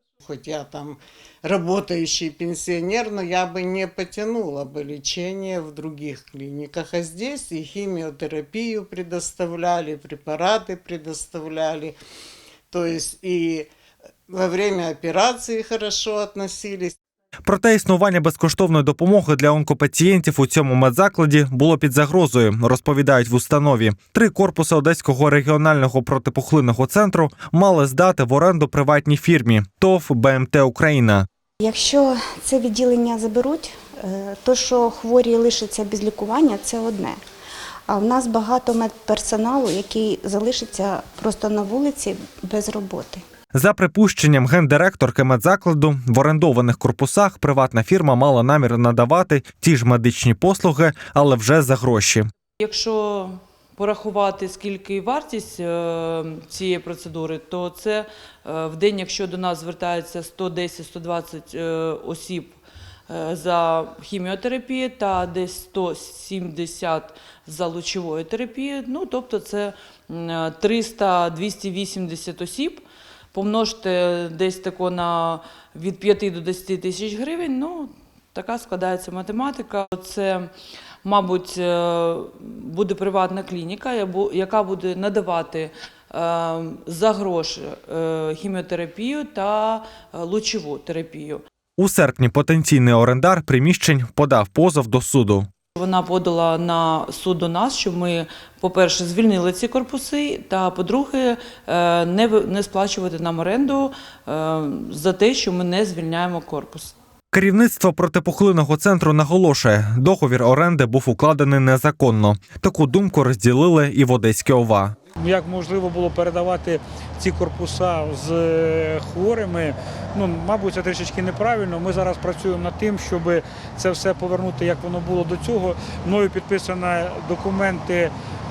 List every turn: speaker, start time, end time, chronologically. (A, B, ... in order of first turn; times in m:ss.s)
0:00.2-0:12.0 A
0:12.7-0:13.7 A
0:14.3-0:17.0 A
0:17.5-0:31.2 B
0:31.6-0:37.2 C
0:37.9-0:43.2 C
0:43.6-0:52.2 B
0:52.6-1:02.6 D
1:03.1-1:20.5 D
1:21.0-1:31.4 D
1:31.8-1:35.5 B
1:35.8-1:46.9 D
1:47.3-1:54.9 B
1:55.2-2:08.1 E